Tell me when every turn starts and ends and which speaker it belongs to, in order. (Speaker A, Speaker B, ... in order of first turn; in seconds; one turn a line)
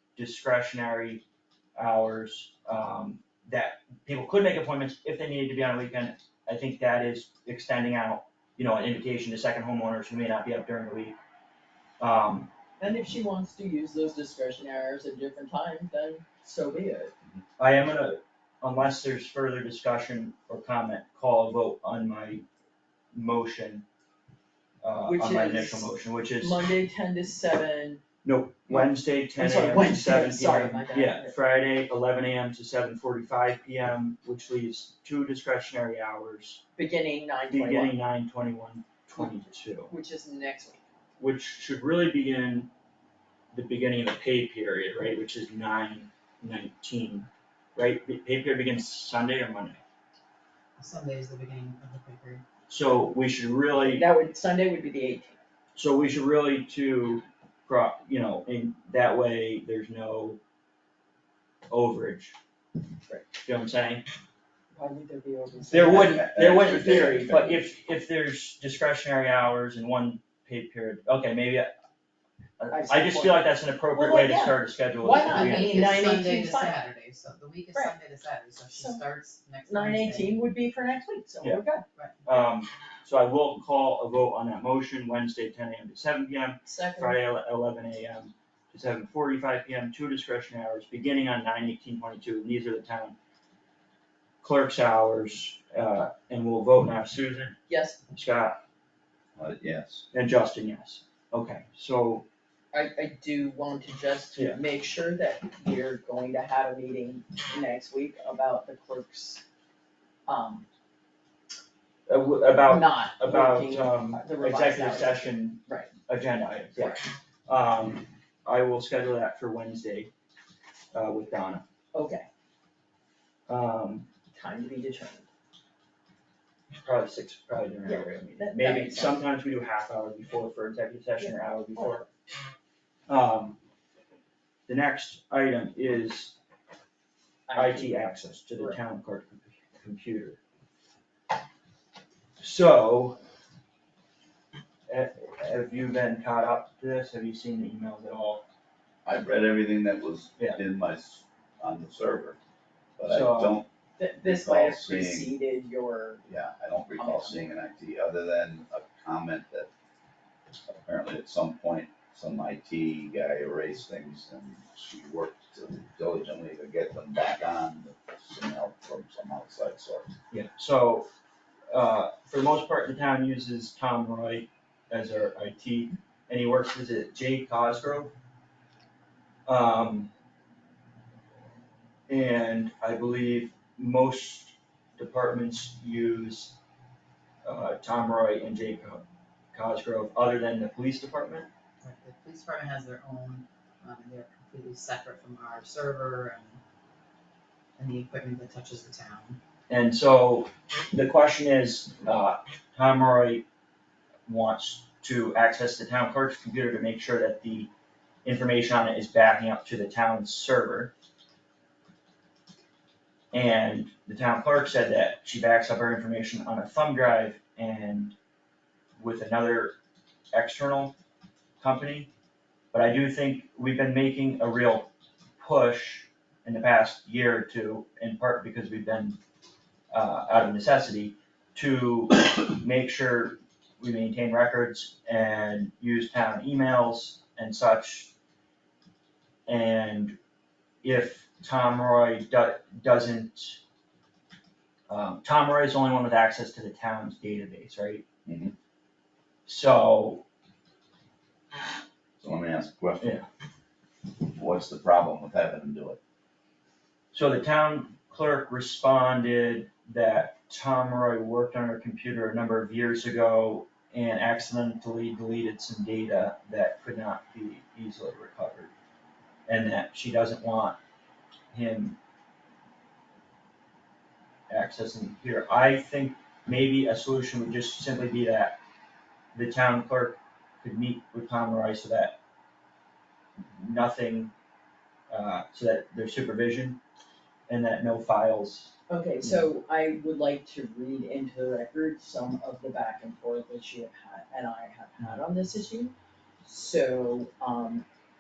Speaker A: 0.2-1.2
Speaker A: 1.8-11.2
Speaker A: 12.0-12.5
Speaker B: 12.8-17.1
Speaker A: 17.6-22.4
Speaker A: 23.1-23.9
Speaker A: 24.8-26.6
Speaker B: 25.1-28.0
Speaker A: 28.2-36.6
Speaker B: 29.4-31.4
Speaker B: 36.8-38.0
Speaker A: 37.5-39.9
Speaker B: 39.9-40.9
Speaker A: 41.2-42.7
Speaker A: 43.5-49.8
Speaker C: 50.8-52.4
Speaker A: 52.7-54.1
Speaker B: 53.8-55.4
Speaker A: 55.8-60.4
Speaker A: 61.7-62.4
Speaker A: 63.4-64.0
Speaker B: 64.7-66.3
Speaker A: 65.7-71.7
Speaker D: 65.9-67.6
Speaker A: 72.6-76.0
Speaker B: 72.7-76.8
Speaker C: 75.2-80.4
Speaker B: 78.7-79.0
Speaker B: 79.7-81.8
Speaker C: 82.0-82.4
Speaker A: 82.3-93.2
Speaker B: 86.7-87.2
Speaker A: 94.4-97.5
Speaker B: 97.7-98.0
Speaker A: 98.1-98.6
Speaker D: 99.4-100.1
Speaker A: 100.1-102.2
Speaker B: 102.7-109.4
Speaker A: 104.3-104.6
Speaker B: 110.3-110.7
Speaker A: 112.1-120.1
Speaker B: 112.7-115.9
Speaker B: 116.8-117.1
Speaker A: 120.9-121.6
Speaker B: 121.9-122.3
Speaker A: 123.5-124.1
Speaker B: 124.3-125.3
Speaker A: 126.8-132.1
Speaker B: 127.8-129.2
Speaker B: 131.2-132.1
Speaker A: 133.1-133.6
Speaker A: 134.7-136.3
Speaker B: 137.5-138.8
Speaker A: 137.5-140.4
Speaker A: 142.4-143.2
Speaker A: 144.9-148.4
Speaker D: 149.1-152.4
Speaker D: 153.0-153.7
Speaker A: 153.1-153.6
Speaker B: 154.0-156.3
Speaker D: 154.2-155.3
Speaker D: 156.3-159.7
Speaker B: 157.0-157.4
Speaker D: 160.7-170.1
Speaker A: 170.3-171.1
Speaker A: 171.7-178.1
Speaker A: 179.5-180.1
Speaker A: 182.1-186.6
Speaker A: 187.4-191.5
Speaker C: 191.8-196.6
Speaker C: 197.8-199.4
Speaker A: 199.7-203.4
Speaker A: 204.3-207.7
Speaker A: 208.2-210.9
Speaker A: 213.3-218.2
Speaker A: 219.0-219.8
Speaker A: 220.3-220.9
Speaker A: 221.6-222.1
Speaker A: 222.7-229.2
Speaker A: 229.9-238.1
Speaker A: 239.5-240.2
Speaker A: 240.8-243.6
Speaker A: 244.9-248.1
Speaker D: 248.3-248.5
Speaker A: 249.5-250.2
Speaker D: 252.2-253.1
Speaker A: 253.0-253.3
Speaker D: 254.2-256.0
Speaker A: 257.1-268.7
Speaker A: 269.5-270.8
Speaker A: 271.5-272.0
Speaker A: 274.5-278.6
Speaker A: 279.3-282.2
Speaker A: 283.4-284.3
Speaker A: 285.1-286.8
Speaker A: 287.5-288.7
Speaker B: 288.9-297.9